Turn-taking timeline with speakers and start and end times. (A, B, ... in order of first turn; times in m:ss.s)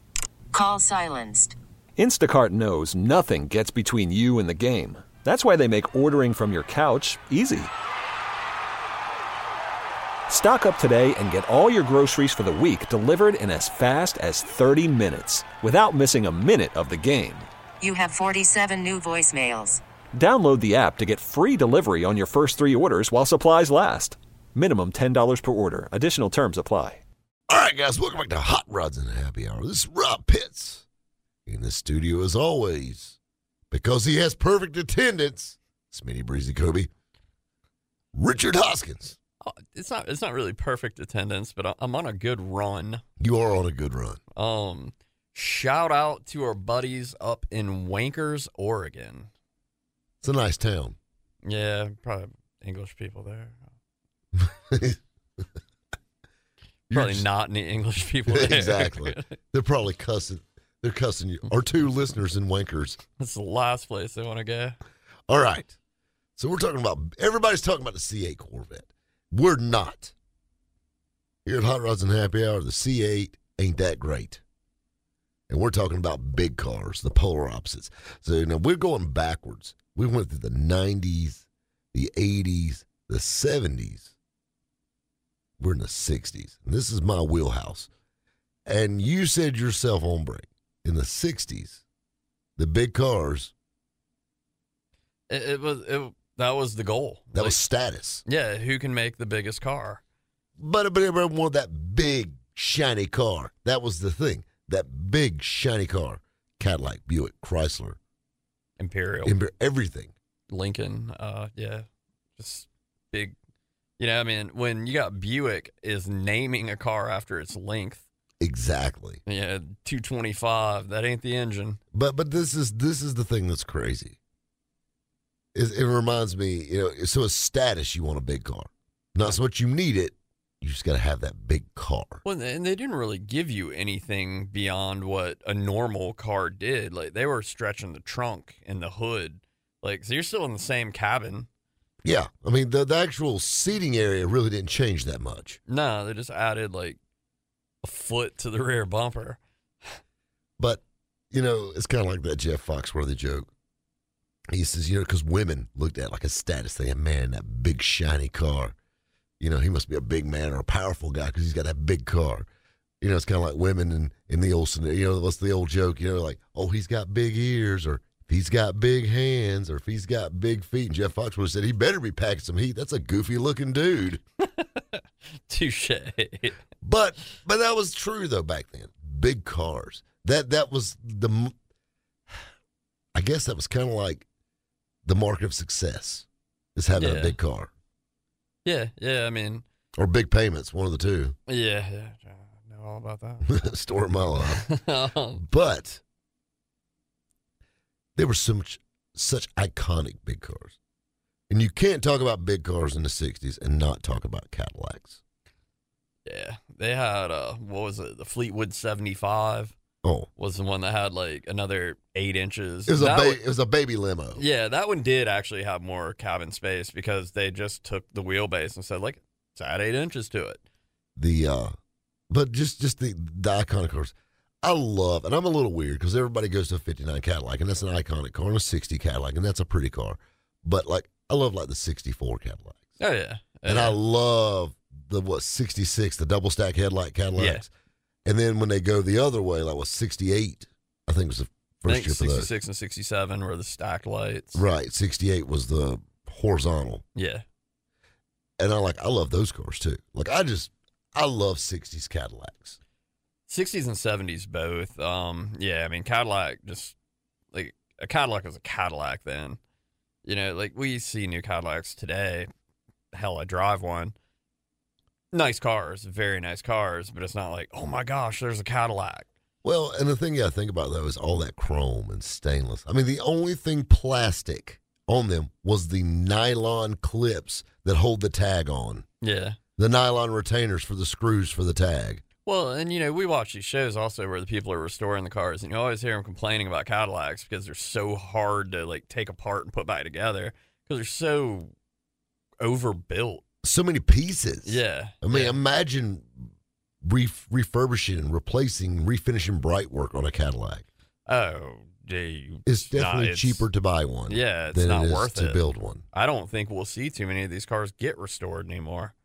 0:00.5-0:01.5 A
0:02.0-0:07.7 B
0:10.3-0:17.5 B
0:17.8-0:19.8 A
0:20.1-0:27.0 B
0:27.5-0:30.8 C
0:31.4-0:33.2 C
0:33.7-0:36.9 C
0:38.1-0:39.2 C
0:39.4-0:43.0 D
0:43.2-0:44.2 C
0:44.3-0:49.3 D
0:50.2-0:51.0 C
0:51.4-0:53.6 D
0:54.4-0:55.0 C
0:56.9-0:59.3 D
0:56.9-0:57.3 C
0:58.3-1:03.0 C
1:03.2-1:04.8 D
1:05.3-1:05.8 C
1:06.4-1:10.1 C
1:11.4-1:14.4 C
1:15.5-1:24.1 C
1:25.6-1:27.9 C
1:28.6-1:31.8 C
1:32.6-1:33.5 C
1:35.3-1:37.6 D
1:37.3-1:38.2 C
1:38.2-1:40.0 D
1:40.6-1:48.0 C
1:48.8-1:49.4 D
1:49.2-1:50.1 C
1:50.5-1:51.8 D
1:52.4-1:53.3 D
1:54.0-1:58.0 D
1:58.4-1:59.2 C
1:59.2-2:01.8 D
2:01.9-2:04.2 C
2:05.5-2:12.2 C
2:12.2-2:21.5 D
2:22.0-2:25.6 C
2:25.7-2:27.0 D
2:27.8-2:30.0 D
2:30.6-2:33.5 C
2:34.5-2:38.8 C
2:39.4-2:42.5 C
2:43.0-2:54.2 C
2:54.4-2:56.6 D
2:56.8-3:01.5 C
3:03.1-3:04.2 C
3:05.0-3:07.7 C
3:07.0-3:07.4 D
3:08.6-3:09.6 D
3:10.0-3:11.4 C
3:11.5-3:13.6 D
3:13.5-3:14.6 C
3:14.3-3:15.4 D
3:15.4-3:16.0 C
3:18.2-3:20.8 C
3:21.5-3:25.2 C
3:26.2-3:29.8 D
3:30.0-3:30.3 C
3:30.4-3:33.4 D
3:32.9-3:34.4 C
3:34.4-3:40.6 D
3:41.2-3:41.7 C
3:42.3-3:52.9 C
3:53.0-3:54.0 D
3:53.6-3:57.7 C
3:57.4-3:57.6 D
3:58.2-4:02.5 C
4:01.8-4:04.6 D
4:04.5-4:07.0 C
4:07.2-4:07.4 D
4:08.6-4:12.8 C
4:13.5-4:16.9 D
4:17.5-4:19.6 D
4:20.2-4:22.5 D
4:23.1-4:24.1 D
4:25.3-4:29.3 D
4:29.6-4:39.0 C
4:39.2-4:39.6 D
4:39.8-4:42.2 C
4:42.4-4:51.7 D
4:52.6-4:53.4 D
4:53.6-4:56.5 C
4:54.6-4:55.6 D
4:57.0-5:00.8 C
5:01.3-5:03.6 D
5:02.6-5:06.0 C
5:04.3-5:05.6 D
5:06.1-5:09.1 D